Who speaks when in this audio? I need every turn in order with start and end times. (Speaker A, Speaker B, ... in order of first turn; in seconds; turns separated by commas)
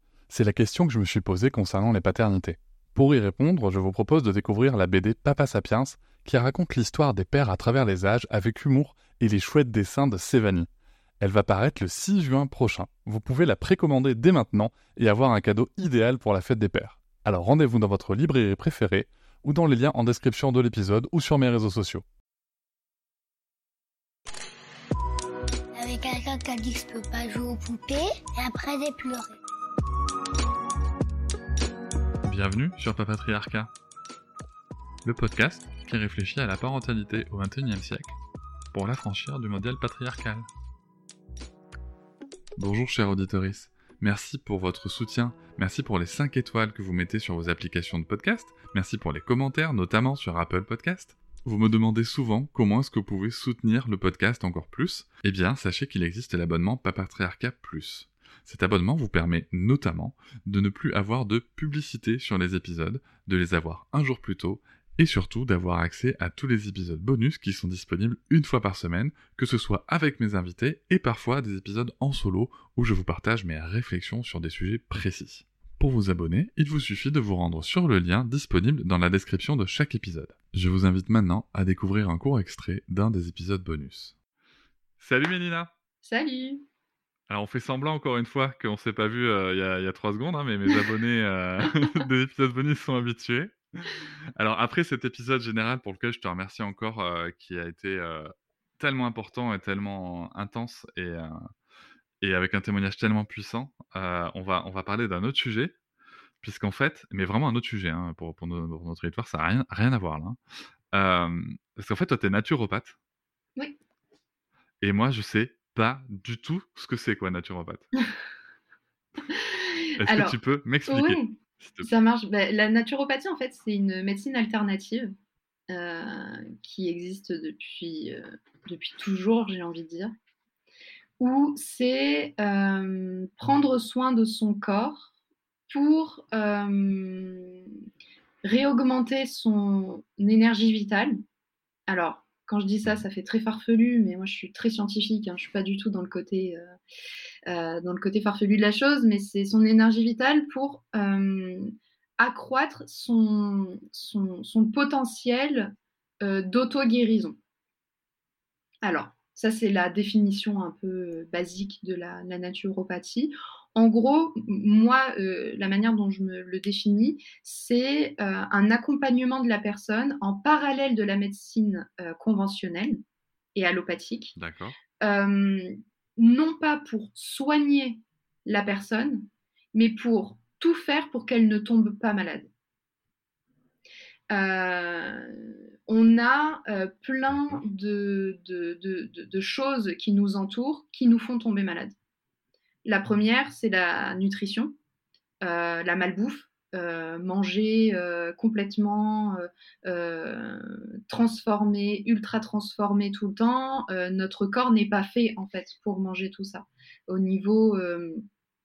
Speaker A: 0.3-10.7, Speaker A: 11.2-22.0, Speaker B: 25.8-29.4, Speaker A: 32.2-33.7, Speaker A: 35.0-38.2, Speaker A: 38.7-40.5, Speaker A: 42.6-84.1, Speaker A: 85.0-85.7, Speaker C: 86.0-86.6, Speaker A: 87.3-101.3, Speaker A: 102.2-105.7, Speaker A: 106.4-110.4, Speaker A: 110.9-113.0, Speaker A: 114.8-117.8, Speaker C: 119.3-125.1, Speaker A: 120.0-121.9, Speaker C: 125.7-130.1, Speaker C: 131.2-135.1, Speaker C: 135.7-137.7, Speaker C: 138.4-141.2, Speaker C: 141.9-146.7, Speaker C: 147.4-157.4, Speaker C: 158.8-173.0, Speaker C: 173.5-174.3, Speaker A: 174.3-174.8, Speaker C: 175.0-182.5, Speaker C: 184.3-191.9, Speaker A: 187.3-187.6, Speaker C: 192.8-194.8, Speaker C: 195.4-208.2